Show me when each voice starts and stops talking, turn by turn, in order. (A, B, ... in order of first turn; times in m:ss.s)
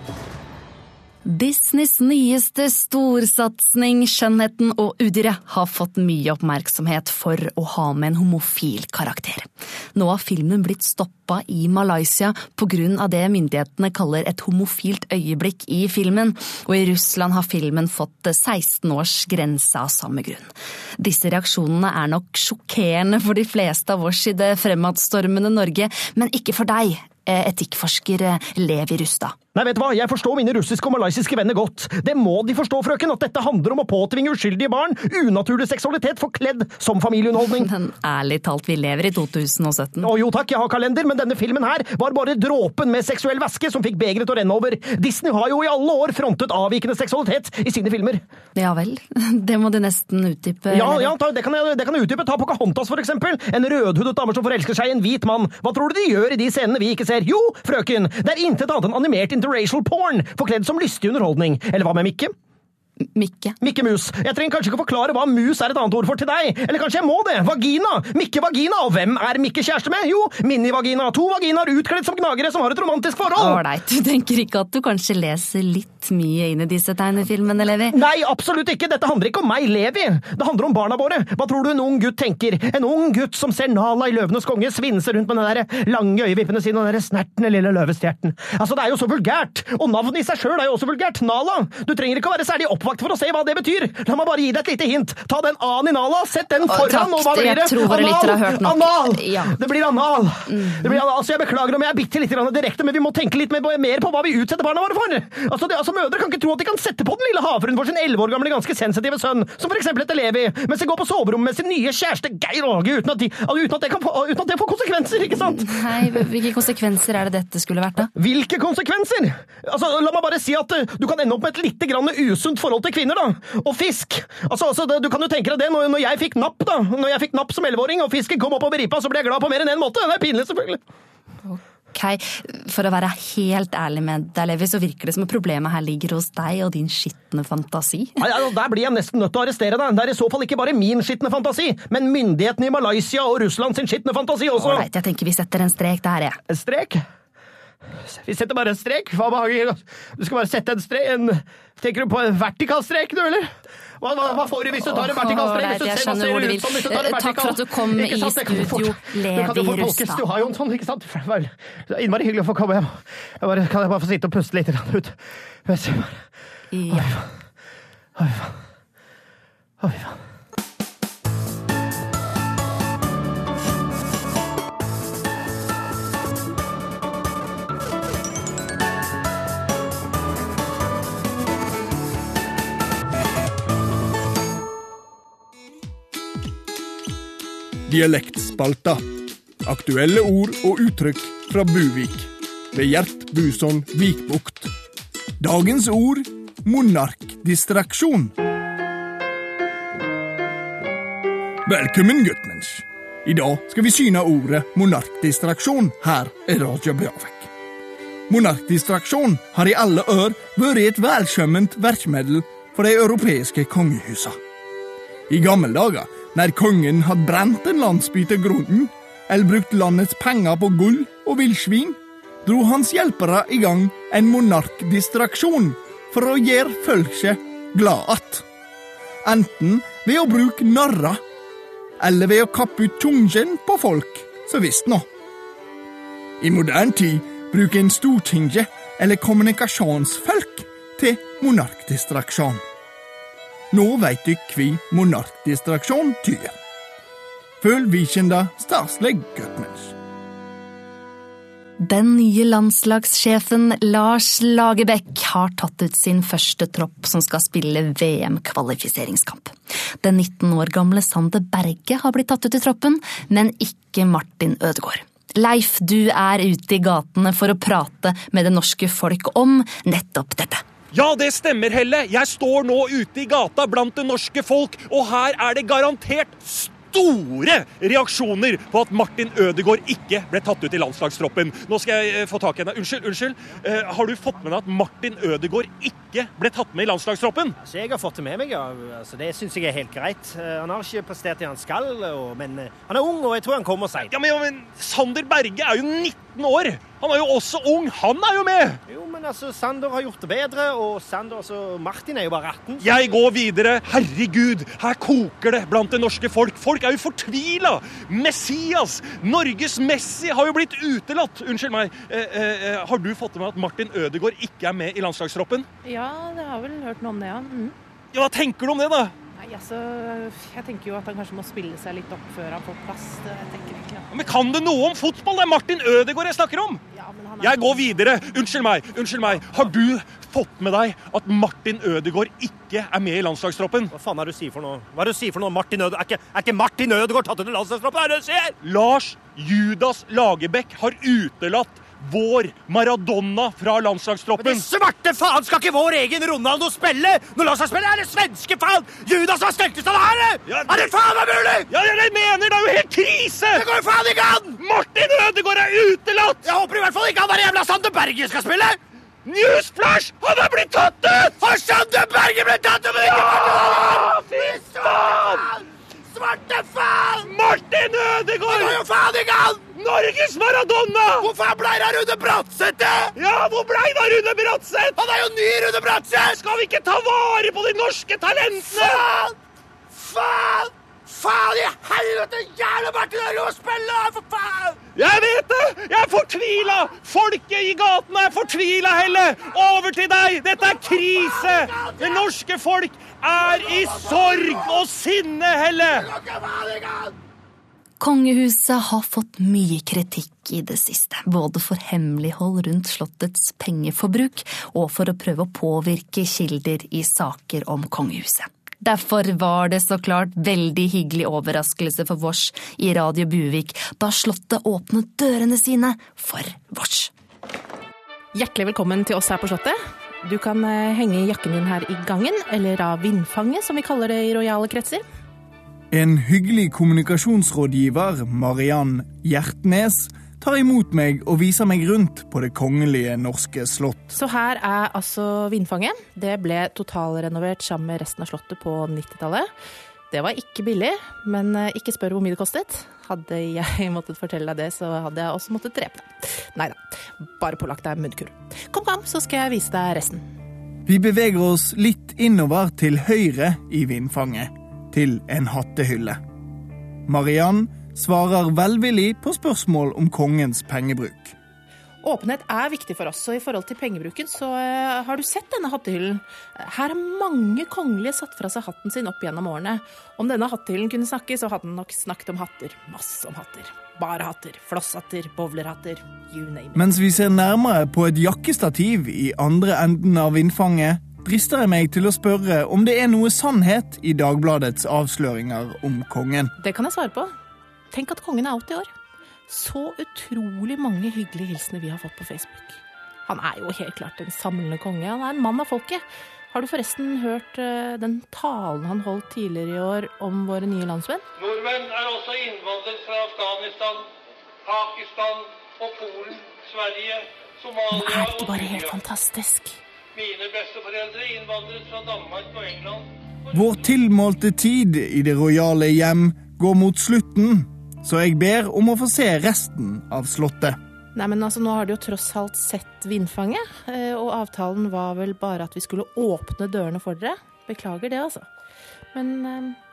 0:01.2-0:29.4 A
0:29.5-0:37.7 B
0:37.6-0:40.1 A
0:40.0-0:48.2 B
0:48.6-0:51.1 A
0:50.7-1:02.3 B
1:03.0-1:03.6 A
1:03.6-1:13.6 B
1:13.3-1:18.0 A
1:17.9-1:56.2 B
1:36.7-1:39.6 A
1:40.5-1:41.0 A
1:55.6-1:58.1 A
1:58.2-2:10.8 B
2:11.4-2:18.2 A
2:18.2-2:24.8 B
2:24.6-2:26.4 A
2:26.5-2:27.0 B
2:28.0-2:33.5 B
2:34.0-2:46.3 B
2:34.9-2:40.2 A
2:46.7-2:47.2 A
2:46.9-2:47.3 B
2:48.2-2:48.6 B
2:49.8-2:50.2 B
3:07.9-3:09.0 C
3:09.6-3:14.7 C
3:15.4-3:18.3 C
3:21.6-3:27.5 C
3:28.3-3:34.4 C
3:35.3-3:48.4 C
3:49.2-3:51.2 C
3:52.0-3:55.0 C
3:56.4-4:02.6 C
4:03.7-4:06.6 C
4:07.6-4:09.9 C
4:11.8-4:30.6 A
4:30.9-4:47.6 D
4:47.6-4:54.1 B
4:54.0-4:58.8 D
4:58.9-5:02.9 B
5:02.8-5:15.7 D
5:15.8-5:17.8 E
5:18.1-5:19.1 D
5:19.4-5:24.1 E
5:24.1-5:26.8 D
5:26.9-5:27.9 E
5:27.4-5:33.9 D
5:33.9-5:38.5 B
5:38.6-5:44.6 D
5:44.4-5:51.7 B
5:50.4-5:51.0 D
5:51.6-5:53.6 D
5:53.5-5:54.6 B
5:54.6-5:56.4 D
5:56.4-5:58.8 B
5:59.2-6:01.6 D
6:01.4-6:03.8 B
6:02.9-6:05.4 D
6:04.5-6:05.4 B
6:06.1-6:07.2 B
6:07.2-6:08.9 D
6:08.5-6:09.6 B
6:09.7-6:11.3 D
6:11.2-6:13.1 B
6:13.2-6:15.0 D
6:15.0-6:16.2 B
6:16.1-6:19.3 D
6:20.3-6:24.8 B
6:24.9-6:36.2 D
6:38.0-6:57.1 A
6:58.3-7:05.0 E
7:05.9-7:14.1 C
7:14.1-7:19.5 E
7:20.1-7:26.8 E
7:27.4-7:30.2 E
7:30.8-7:36.2 C
7:37.1-7:41.3 C
7:42.0-7:56.9 E
7:56.8-8:06.5 C
8:06.6-8:07.3 E
8:07.9-8:08.9 E
8:09.5-8:21.2 E
8:21.4-8:24.1 F
8:24.6-8:29.0 F
8:27.9-8:29.8 E
8:30.1-8:33.0 F
8:33.5-8:40.8 C
8:41.1-8:48.5 E
8:49.1-8:49.8 E